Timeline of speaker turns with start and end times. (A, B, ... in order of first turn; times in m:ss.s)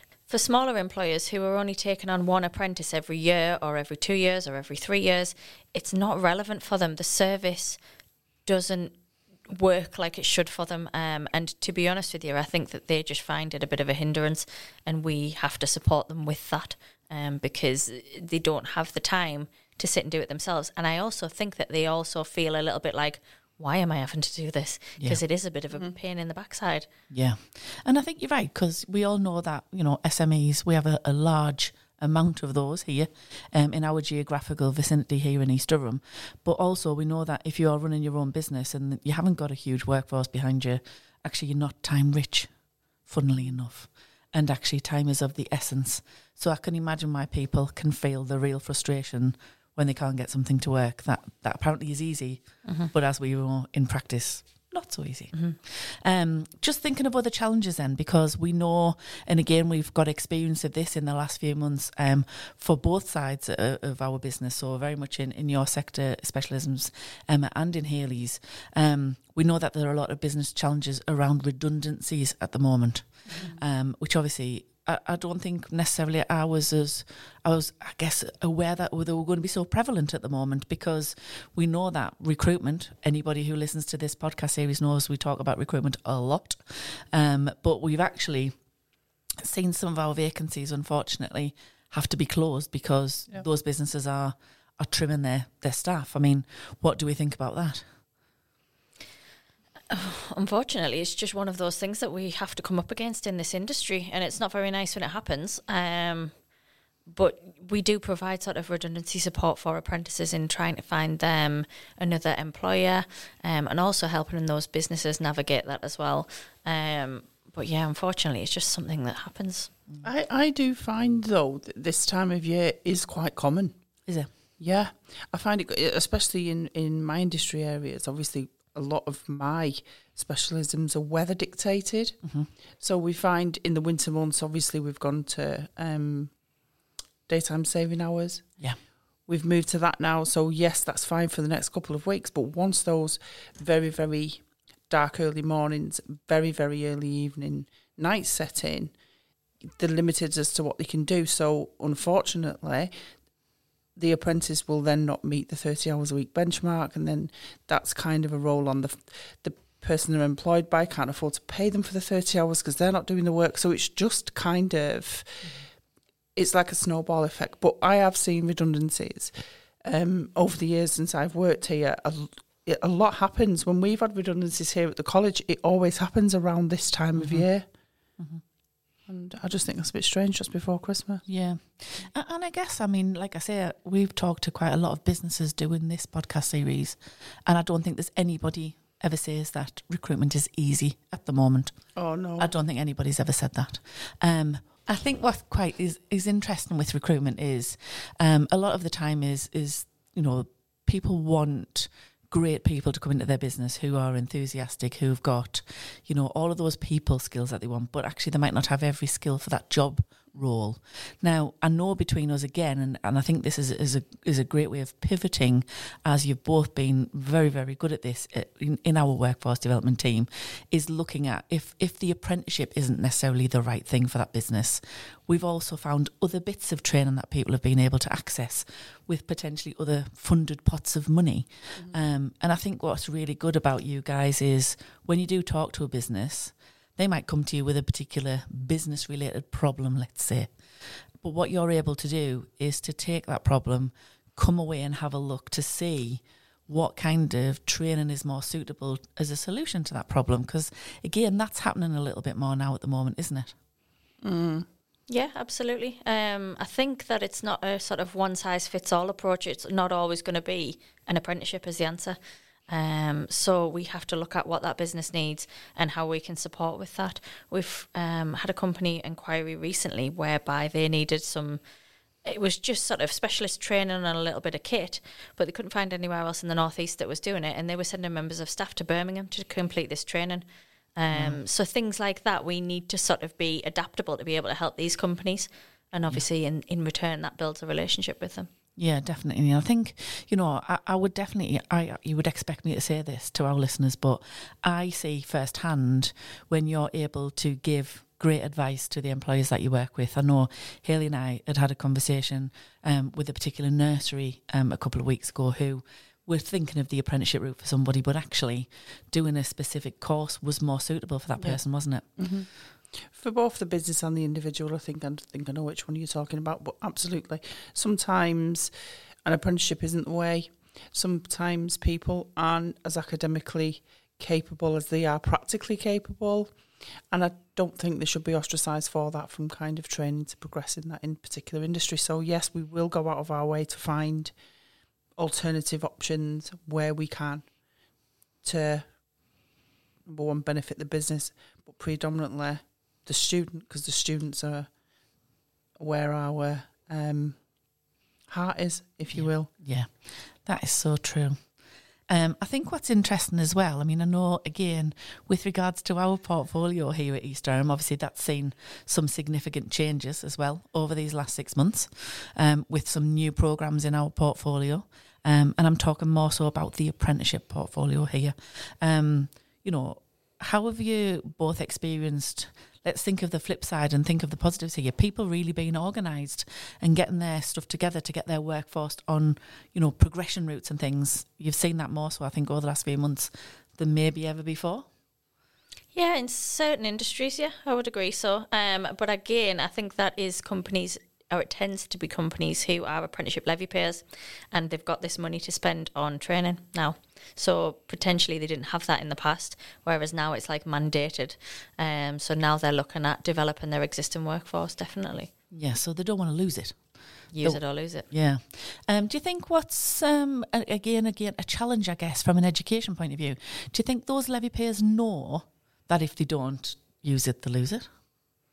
0:00.3-0:07.8 A
0:08.5-0:09.0 A
0:09.5-0:26.9 A
0:27.1-0:42.5 B
0:43.0-1:28.6 B
0:52.6-0:52.9 A
1:13.3-1:13.6 C
1:29.4-1:37.8 B
1:39.9-1:46.3 A
1:47.1-1:59.7 A
2:00.0-2:03.8 C
2:04.6-2:12.2 C
2:12.2-2:12.5 B
2:12.8-2:16.3 C
2:17.3-2:18.5 C
2:19.3-2:28.9 C
2:29.8-2:32.9 C
2:34.0-2:45.5 C
2:46.4-2:49.3 C
2:49.8-2:57.6 C
2:57.2-2:57.5 B
2:59.1-3:01.2 C
3:01.3-3:11.7 B
3:12.0-3:12.5 C
3:12.4-4:13.5 B
4:14.2-4:14.7 C
4:15.1-4:31.6 A
4:32.2-4:48.5 A
4:41.1-4:41.4 B
4:48.8-5:12.1 B
5:12.2-5:12.5 C
5:13.0-5:18.7 C
5:19.2-5:26.5 C
5:27.1-5:34.3 C
5:35.2-5:37.5 C
5:38.4-5:38.9 C
5:40.1-5:44.7 C
5:45.8-5:47.4 C
5:48.3-5:49.5 C
5:49.1-5:51.5 B
5:52.1-6:24.9 B
6:25.9-6:45.3 A
6:45.5-6:57.9 B
6:47.3-6:48.1 A